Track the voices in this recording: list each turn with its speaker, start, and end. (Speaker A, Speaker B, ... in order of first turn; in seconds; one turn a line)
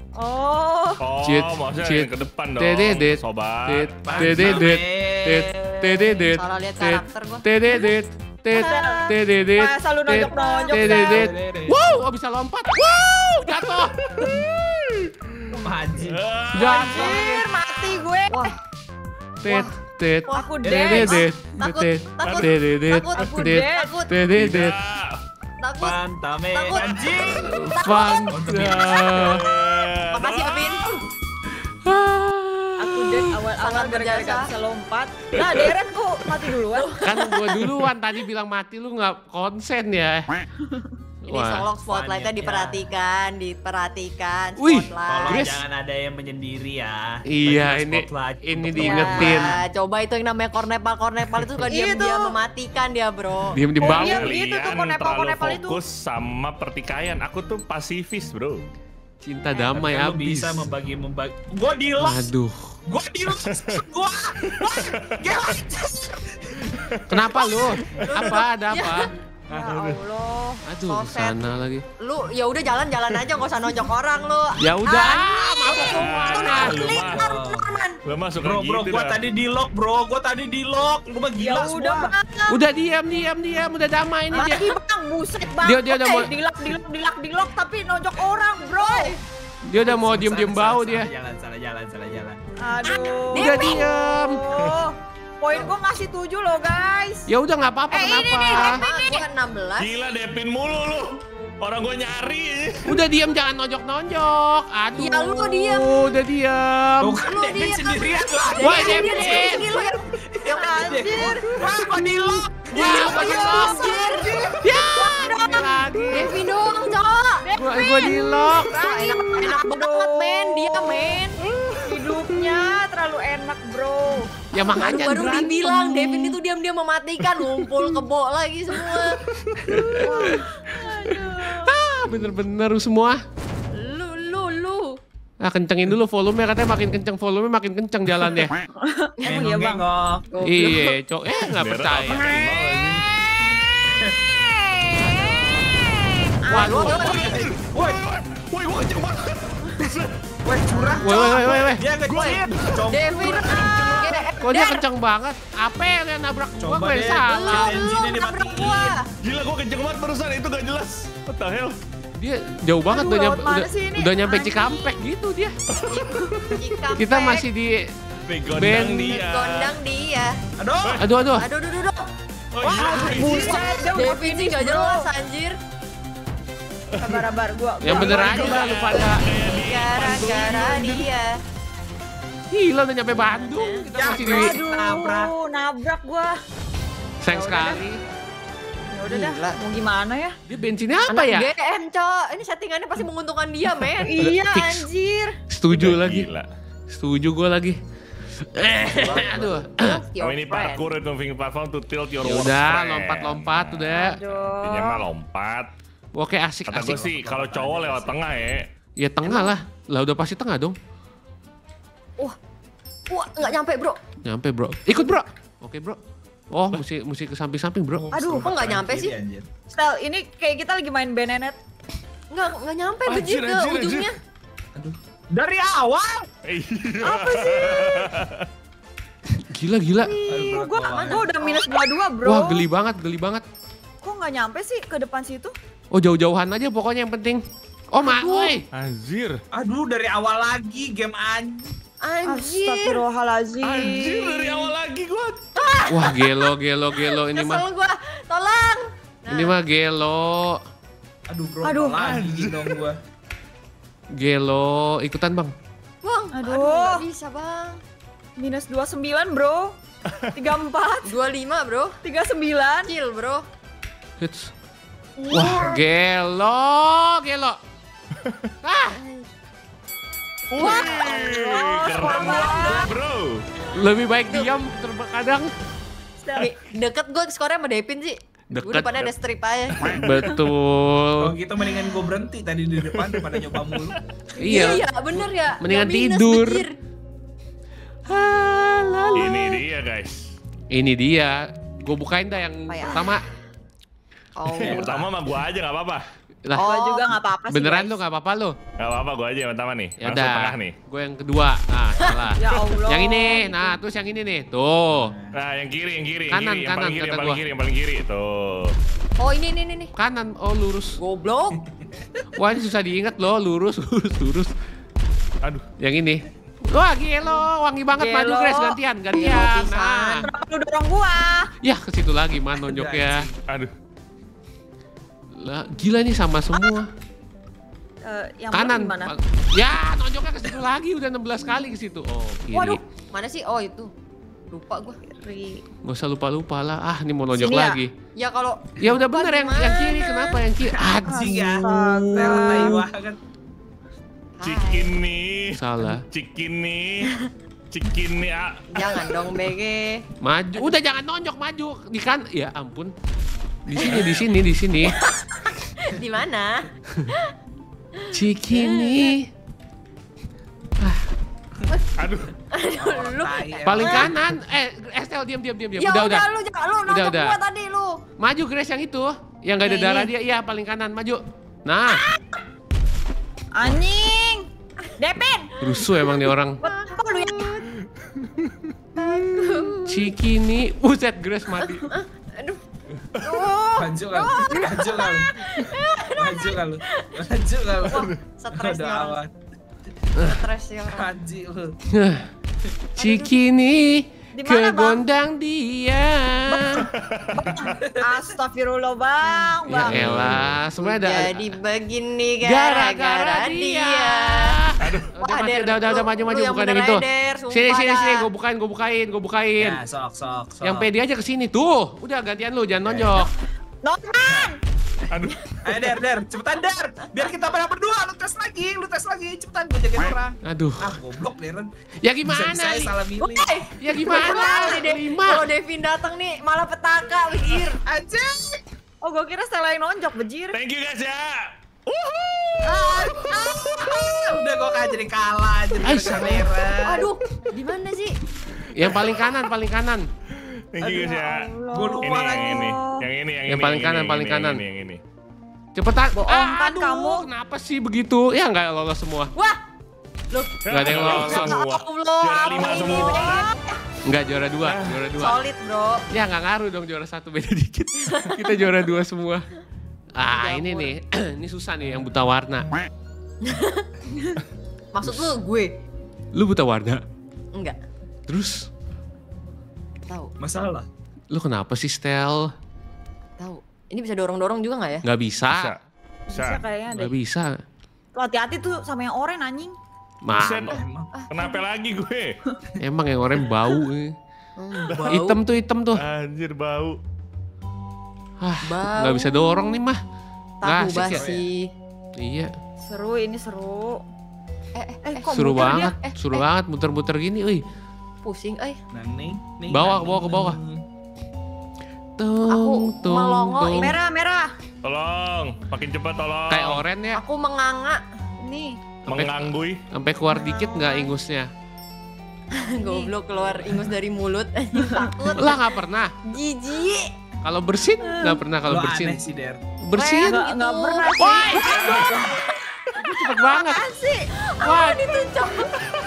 Speaker A: 0.1-1.0
Speaker B: 1.0-4.6
Speaker C: 1.2-13.9
Speaker D: 4.0-5.5
Speaker E: 6.3-7.5
Speaker A: 8.5-11.2
Speaker E: 10.3-10.7
Speaker D: 10.8-12.0
Speaker D: 14.2-14.4
Speaker D: 15.6-16.2
Speaker B: 16.1-16.8
Speaker C: 16.5-17.3
Speaker A: 16.6-18.6
Speaker E: 16.8-17.4
Speaker C: 19.4-24.8
Speaker E: 19.4-19.7
Speaker E: 20.3-24.1
Speaker A: 20.3-21.2
Speaker D: 20.6-21.2
Speaker B: 22.2-22.5
Speaker A: 23.1-23.9
Speaker B: 24.3-25.2
Speaker E: 25.6-26.0
Speaker D: 25.8-27.5
Speaker E: 26.5-29.4
Speaker C: 27.4-29.4
Speaker D: 28.3-29.2
Speaker B: 29.1-31.0
Speaker E: 30.1-30.9
Speaker C: 31.8-33.3
Speaker A: 32.8-36.9
Speaker E: 33.6-34.5
Speaker E: 36.7-37.7
Speaker C: 37.0-40.3
Speaker A: 40.6-40.9
Speaker C: 41.2-41.6
Speaker E: 41.3-45.4
Speaker D: 41.9-42.8
Speaker C: 44.6-45.6
Speaker D: 45.1-49.6
Speaker C: 47.3-49.6
Speaker A: 48.8-49.3
Speaker E: 49.2-53.6
Speaker A: 51.7-52.3
Speaker C: 53.5-54.3
Speaker A: 53.8-55.8
Speaker B: 53.8-58.6
Speaker C: 59.2-60.7
Speaker D: 59.7-62.3
Speaker C: 62.0-62.7
Speaker D: 62.9-67.4
Speaker B: 63.5-63.8
Speaker B: 64.5-65.4
Speaker B: 66.7-67.2
Speaker C: 67.1-69.1
Speaker E: 68.0-69.1
Speaker B: 68.0-68.4
Speaker A: 69.5-70.6
Speaker B: 69.6-70.0
Speaker C: 70.7-71.8
Speaker E: 70.8-71.4
Speaker E: 72.0-78.0
Speaker C: 74.6-76.8
Speaker B: 75.8-77.3
Speaker D: 77.0-77.7
Speaker B: 78.0-79.2
Speaker D: 78.4-82.1
Speaker A: 81.4-82.6
Speaker C: 82.5-84.7
Speaker E: 84.3-84.7
Speaker A: 84.4-89.2
Speaker C: 85.6-86.3
Speaker E: 88.8-89.1
Speaker C: 89.7-91.1
Speaker D: 89.8-92.4
Speaker A: 92.6-97.3
Speaker E: 92.8-93.9
Speaker C: 93.3-94.4
Speaker C: 97.3-98.8
Speaker A: 97.9-99.2
Speaker E: 98.5-100.0
Speaker B: 99.8-103.0
Speaker C: 102.9-107.2
Speaker E: 105.0-106.0
Speaker D: 107.0-114.6
Speaker E: 107.2-108.0
Speaker E: 108.5-110.0
Speaker C: 108.6-109.8
Speaker A: 110.5-111.6
Speaker C: 112.7-113.9
Speaker E: 112.7-114.5
Speaker A: 112.9-113.9
Speaker C: 114.6-116.3
Speaker A: 114.7-116.3
Speaker E: 116.1-117.4
Speaker A: 117.4-121.2
Speaker C: 117.5-118.7
Speaker E: 118.5-121.4
Speaker B: 121.5-122.5
Speaker A: 121.8-124.3
Speaker C: 124.5-126.3
Speaker E: 124.6-129.2
Speaker C: 129.7-133.2
Speaker A: 129.7-131.7
Speaker B: 129.8-130.1
Speaker E: 133.7-135.0
Speaker C: 135.4-138.5
Speaker A: 138.8-139.8
Speaker D: 139.2-140.3
Speaker E: 140.3-140.9
Speaker C: 140.4-142.4
Speaker B: 141.4-143.0
Speaker D: 142.1-143.1
Speaker D: 143.7-144.3
Speaker A: 144.4-146.8
Speaker E: 145.0-145.8
Speaker C: 146.5-147.3
Speaker E: 146.5-147.3
Speaker D: 146.9-148.0
Speaker B: 147.1-150.1
Speaker D: 150.4-154.0
Speaker E: 150.7-151.3
Speaker C: 151.0-151.8
Speaker B: 152.1-154.3
Speaker E: 152.1-154.8
Speaker C: 154.4-157.8
Speaker D: 156.6-159.0
Speaker E: 157.3-159.1
Speaker B: 159.2-161.8
Speaker C: 162.2-165.5
Speaker A: 162.9-165.0
Speaker B: 165.7-166.6
Speaker E: 165.9-167.4
Speaker C: 167.0-167.9
Speaker B: 168.3-169.8
Speaker C: 168.5-169.1
Speaker E: 168.8-170.4
Speaker D: 170.6-171.0
Speaker C: 171.0-171.5
Speaker E: 171.3-172.1
Speaker B: 172.5-173.7
Speaker A: 172.6-175.1
Speaker E: 173.0-175.6
Speaker B: 177.0-177.3
Speaker A: 177.0-178.7
Speaker C: 177.8-179.2
Speaker B: 177.9-181.1
Speaker D: 178.0-178.3
Speaker E: 178.2-181.4
Speaker C: 182.5-184.6
Speaker E: 183.1-183.9
Speaker D: 183.9-185.3
Speaker A: 184.1-186.3
Speaker C: 187.2-188.0
Speaker A: 187.2-187.8
Speaker A: 188.9-190.3
Speaker E: 189.1-189.6
Speaker C: 190.5-191.5
Speaker E: 191.1-194.2
Speaker A: 194.0-195.3
Speaker C: 194.2-194.8
Speaker C: 195.5-196.3
Speaker B: 195.7-196.5
Speaker C: 196.9-197.8
Speaker C: 198.4-200.0
Speaker D: 198.9-199.6
Speaker E: 199.1-200.9
Speaker B: 200.2-205.7
Speaker C: 202.2-204.2
Speaker A: 203.9-205.0
Speaker C: 206.1-207.0
Speaker B: 206.7-208.6
Speaker D: 206.7-208.2
Speaker C: 209.0-210.8
Speaker E: 209.3-209.5
Speaker E: 213.1-214.0
Speaker C: 214.2-216.0
Speaker C: 216.5-218.1
Speaker D: 217.9-219.5
Speaker A: 218.1-218.5
Speaker E: 218.4-219.1
Speaker A: 219.7-221.6
Speaker E: 222.3-224.1
Speaker B: 223.1-224.1
Speaker D: 224.7-226.3
Speaker B: 226.4-228.4
Speaker A: 227.0-228.1
Speaker C: 229.4-230.1
Speaker E: 230.0-231.7
Speaker D: 230.3-231.3
Speaker A: 230.6-232.7
Speaker C: 232.2-233.4
Speaker A: 234.0-235.5
Speaker C: 235.9-238.6
Speaker E: 238.0-238.6
Speaker B: 238.7-239.4
Speaker D: 239.5-241.7
Speaker E: 242.0-243.1
Speaker A: 242.2-244.7
Speaker B: 243.6-245.4
Speaker E: 245.6-249.6
Speaker C: 245.9-247.7
Speaker C: 249.3-250.6
Speaker D: 251.3-253.0
Speaker A: 251.6-252.0
Speaker B: 252.0-252.7
Speaker C: 254.1-255.5
Speaker E: 256.0-257.8
Speaker A: 256.3-257.1
Speaker A: 258.4-259.7
Speaker A: 260.3-261.1
Speaker E: 261.0-262.0
Speaker A: 262.0-262.9
Speaker E: 262.8-263.5
Speaker C: 264.2-264.5
Speaker A: 265.2-265.8
Speaker C: 265.3-267.6
Speaker C: 268.6-269.0
Speaker E: 268.9-269.3
Speaker B: 270.5-273.4
Speaker A: 270.6-272.9
Speaker E: 270.6-271.3
Speaker C: 273.7-275.5
Speaker A: 276.2-276.6
Speaker E: 276.4-279.9
Speaker C: 278.5-278.9
Speaker B: 279.8-280.2
Speaker C: 279.9-281.3
Speaker D: 281.2-284.0
Speaker A: 284.4-284.8
Speaker C: 284.4-284.8
Speaker E: 284.4-286.8
Speaker C: 285.6-286.6
Speaker C: 288.1-289.4
Speaker E: 288.1-289.6
Speaker B: 289.1-290.3
Speaker C: 290.7-293.2
Speaker E: 292.7-293.2
Speaker E: 294.4-295.0
Speaker D: 294.6-295.1
Speaker B: 294.6-296.0
Speaker E: 296.5-297.1
Speaker A: 296.6-298.0
Speaker C: 297.5-298.6
Speaker B: 298.8-300.7
Speaker C: 300.0-305.1
Speaker A: 302.4-303.8
Speaker B: 302.5-302.8
Speaker D: 304.9-305.4
Speaker B: 305.3-308.8
Speaker C: 306.3-307.4
Speaker E: 309.2-309.9
Speaker C: 309.9-311.0
Speaker E: 311.0-311.6
Speaker D: 311.7-312.1
Speaker C: 312.4-314.5
Speaker C: 315.8-320.3
Speaker A: 317.9-318.8
Speaker E: 319.1-320.2
Speaker A: 320.2-321.5
Speaker C: 321.6-323.3
Speaker D: 322.6-323.4
Speaker C: 325.3-326.9
Speaker A: 328.0-329.1
Speaker C: 328.5-332.8
Speaker A: 332.5-332.8
Speaker E: 333.1-333.9
Speaker E: 334.5-335.0
Speaker A: 335.0-335.6
Speaker C: 335.8-337.9
Speaker A: 337.3-337.8
Speaker E: 338.1-340.4
Speaker C: 338.8-342.8
Speaker A: 341.1-342.8
Speaker D: 341.1-343.2
Speaker E: 344.4-344.9
Speaker B: 344.4-347.1
Speaker C: 345.5-346.0
Speaker B: 347.7-349.2
Speaker E: 348.7-350.1
Speaker C: 350.2-352.9
Speaker C: 353.7-355.0
Speaker E: 353.7-354.1
Speaker E: 354.8-357.3
Speaker E: 357.9-359.1
Speaker C: 358.1-359.3
Speaker B: 362.0-362.3
Speaker E: 362.5-364.1
Speaker D: 362.7-364.2
Speaker C: 363.6-366.2
Speaker E: 365.8-368.0
Speaker C: 366.9-367.4
Speaker C: 368.2-372.0
Speaker E: 369.6-370.1
Speaker A: 373.5-375.5
Speaker C: 375.6-376.6
Speaker E: 375.7-377.6
Speaker A: 376.6-377.7
Speaker B: 378.2-378.5
Speaker E: 379.0-380.1
Speaker C: 379.0-381.9
Speaker E: 381.5-382.6
Speaker A: 383.2-383.8
Speaker D: 383.7-385.3
Speaker E: 384.1-387.1
Speaker A: 384.5-384.7
Speaker D: 386.1-389.3
Speaker E: 388.3-389.2
Speaker E: 390.1-391.1
Speaker D: 390.9-391.7
Speaker C: 391.9-392.2
Speaker C: 392.9-396.8
Speaker E: 393.0-393.4
Speaker A: 394.3-395.0
Speaker A: 396.5-400.1
Speaker B: 396.7-397.6
Speaker D: 397.7-398.3
Speaker E: 399.3-404.6
Speaker C: 399.7-401.5
Speaker C: 402.4-409.8
Speaker B: 404.8-405.1
Speaker E: 405.2-408.3
Speaker D: 409.6-410.9
Speaker C: 410.6-413.3
Speaker D: 412.8-413.2
Speaker A: 413.8-414.6
Speaker D: 414.2-414.5
Speaker B: 415.1-415.6
Speaker D: 415.6-421.7
Speaker C: 420.4-420.9
Speaker C: 422.0-422.9
Speaker D: 422.2-423.5
Speaker E: 423.2-427.8
Speaker C: 423.8-425.4
Speaker D: 427.9-428.6
Speaker A: 429.0-430.6
Speaker B: 430.5-434.1
Speaker D: 432.6-437.1
Speaker C: 435.8-436.5
Speaker E: 436.8-438.2
Speaker C: 438.7-440.0
Speaker B: 438.8-439.3
Speaker B: 440.3-441.5
Speaker D: 440.8-441.2
Speaker A: 441.1-443.0
Speaker D: 441.7-442.6
Speaker B: 442.0-445.0
Speaker C: 443.5-444.6
Speaker C: 445.7-449.3
Speaker A: 446.1-447.3
Speaker E: 449.3-449.6
Speaker E: 450.3-453.6
Speaker B: 450.6-453.5
Speaker C: 450.7-451.6
Speaker A: 452.5-453.6
Speaker C: 454.0-455.4
Speaker B: 454.6-455.0
Speaker E: 455.1-456.0
Speaker C: 456.1-459.4
Speaker E: 458.1-458.5
Speaker C: 460.1-462.7
Speaker E: 460.2-460.9
Speaker E: 463.4-463.9
Speaker E: 464.9-465.8
Speaker C: 465.0-465.3
Speaker C: 466.3-467.0
Speaker E: 467.5-467.8
Speaker C: 468.3-468.7
Speaker E: 470.1-470.3
Speaker D: 470.4-470.9
Speaker C: 471.3-472.5
Speaker E: 473.4-475.0
Speaker C: 475.0-475.7
Speaker B: 475.5-475.8
Speaker A: 476.3-477.1
Speaker B: 476.3-476.6
Speaker C: 476.9-477.5
Speaker A: 478.1-479.7
Speaker C: 480.2-480.7
Speaker B: 480.3-480.8
Speaker D: 480.7-481.1
Speaker E: 480.7-481.6
Speaker B: 481.3-482.4
Speaker C: 482.8-484.1
Speaker E: 484.6-485.4
Speaker B: 484.9-485.2
Speaker C: 485.1-486.0
Speaker B: 485.9-487.0
Speaker C: 488.4-490.0
Speaker E: 488.6-489.8
Speaker E: 490.6-491.7
Speaker C: 490.6-491.3
Speaker D: 491.0-491.4
Speaker C: 492.2-492.5
Speaker A: 492.8-494.0
Speaker E: 494.7-496.4
Speaker A: 495.0-495.9
Speaker C: 495.3-497.6
Speaker E: 498.2-498.8
Speaker D: 498.9-500.8
Speaker C: 499.7-500.6
Speaker C: 502.2-503.9
Speaker E: 502.5-504.0
Speaker A: 503.8-504.5
Speaker B: 504.8-506.8
Speaker C: 506.5-507.2
Speaker E: 507.1-508.0
Speaker A: 508.4-508.8
Speaker B: 509.1-509.8
Speaker C: 509.1-511.5
Speaker A: 510.3-511.1
Speaker E: 512.5-515.6
Speaker A: 512.7-513.1
Speaker A: 514.7-515.3
Speaker C: 515.4-516.1
Speaker E: 516.3-517.1
Speaker C: 517.4-519.2
Speaker A: 518.0-518.4
Speaker D: 518.6-519.6
Speaker C: 519.8-520.4
Speaker A: 519.9-522.4
Speaker E: 520.2-521.3
Speaker C: 521.2-522.1
Speaker B: 521.6-522.2
Speaker C: 522.9-523.8
Speaker A: 523.3-524.3
Speaker E: 524.4-525.7
Speaker C: 524.6-525.1